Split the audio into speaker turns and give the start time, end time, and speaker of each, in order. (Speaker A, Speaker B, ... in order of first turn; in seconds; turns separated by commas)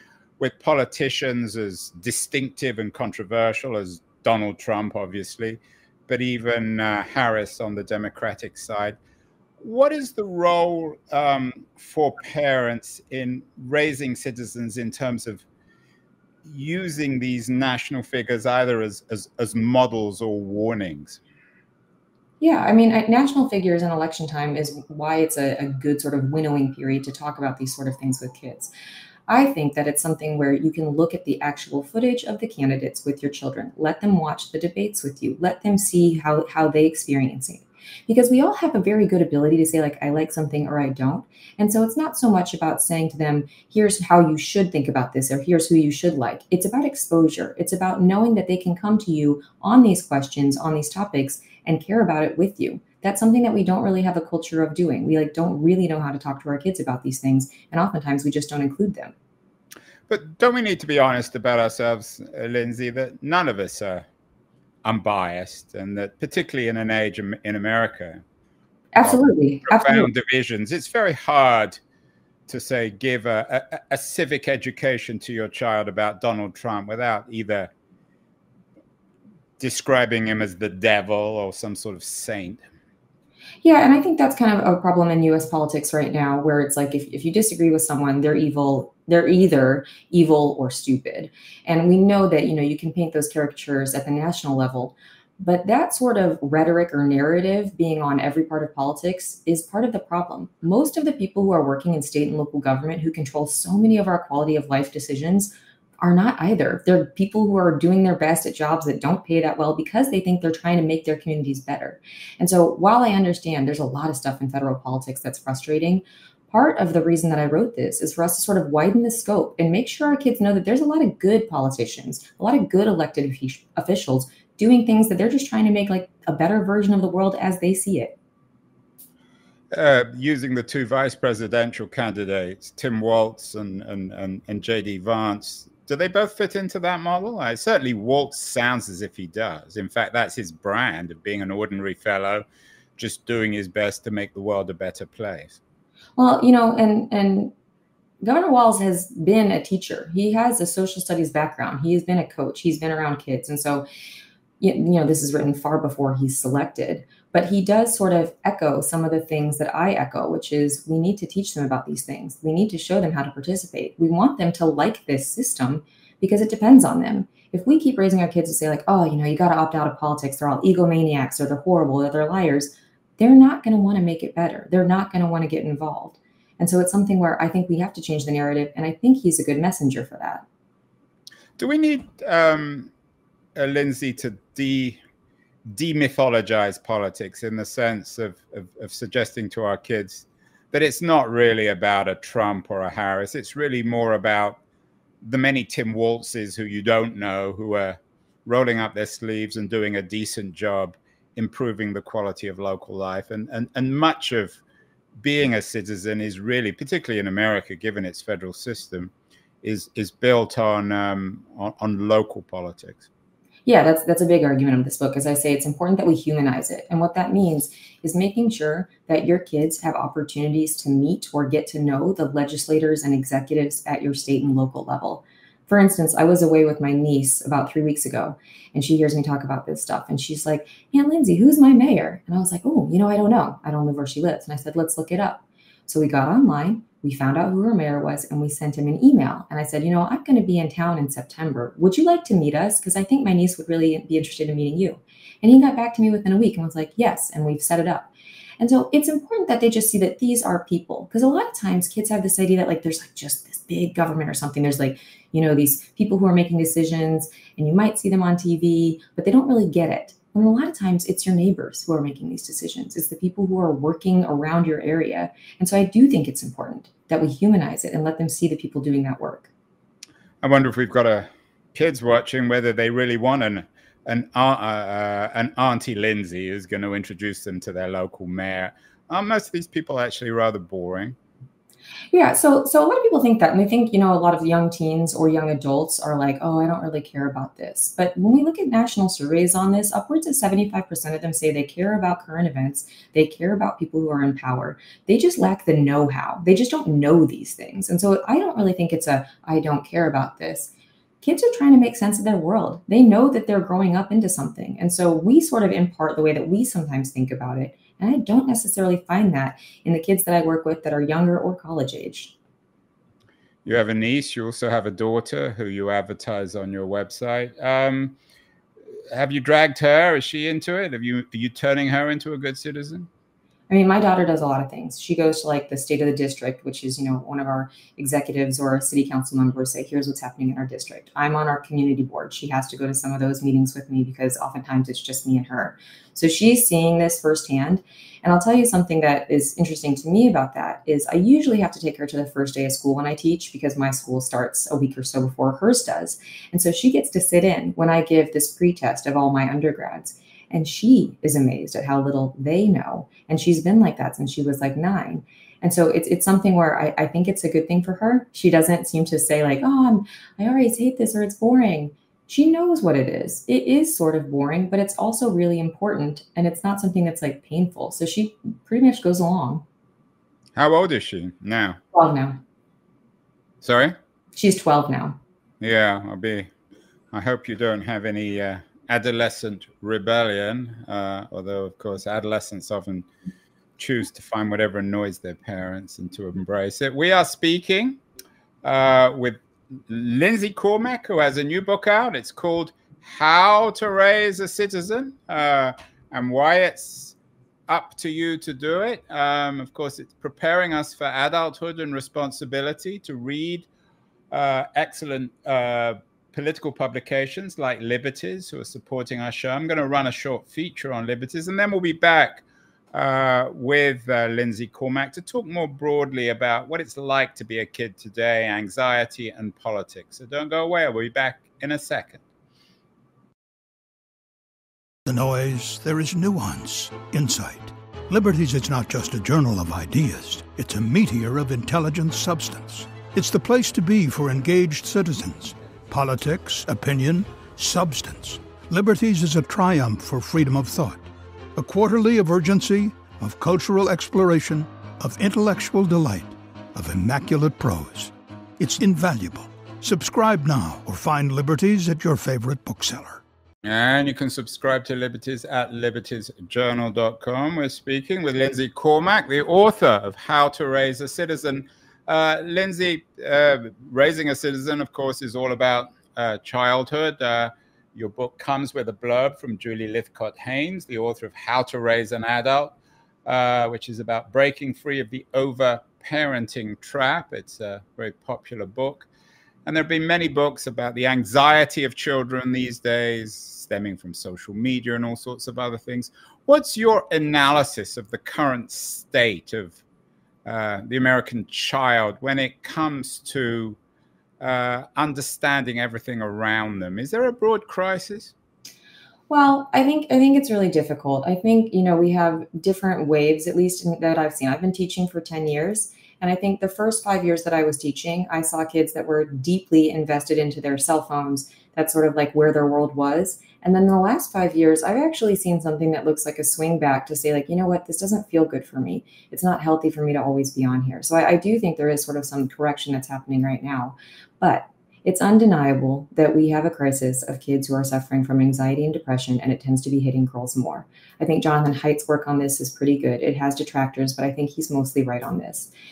Speaker A: 0.4-9.0, Speaker A: 9.6-15.4, Speaker A: 16.4-21.2, Speaker B: 22.4-28.7, Speaker B: 29.3-59.1, Speaker A: 60.1-64.0, Speaker A: 64.8-68.2, Speaker B: 68.9-70.1, Speaker A: 69.0-71.8, Speaker A: 72.5-77.7, Speaker A: 79.6-82.6, Speaker B: 83.6-128.2, Speaker A: 129.7-142.4, Speaker A: 143.0-145.6, Speaker B: 146.2-147.5, Speaker B: 148.2-153.9, Speaker B: 154.6-180.4, Speaker A: 181.6-182.9, Speaker A: 183.6-185.0, Speaker A: 185.7-194.6, Speaker A: 195.2-204.6, Speaker A: 205.2-213.1, Speaker B: 213.7-269.5, Speaker A: 270.4-281.2, Speaker B: 282.1-300.7, Speaker B: 301.2-312.4, Speaker A: 313.6-318.2, Speaker A: 319.1-323.1, Speaker B: 323.7-369.6, Speaker A: 370.6-371.8, Speaker B: 371.9-372.4, Speaker A: 373.6-374.0, Speaker B: 374.3-375.2, Speaker A: 375.6-376.5, Speaker A: 377.1-383.1, Speaker A: 383.8-388.0, Speaker A: 388.6-397.2, Speaker A: 397.7-403.7, Speaker A: 404.3-422.2, Speaker C: 425.1-441.0, Speaker C: 441.6-453.2, Speaker A: 453.6-479.1, Speaker A: 479.6-489.8, Speaker A: 490.4-493.8, Speaker A: 494.4-498.3, Speaker B: 499.3-535.7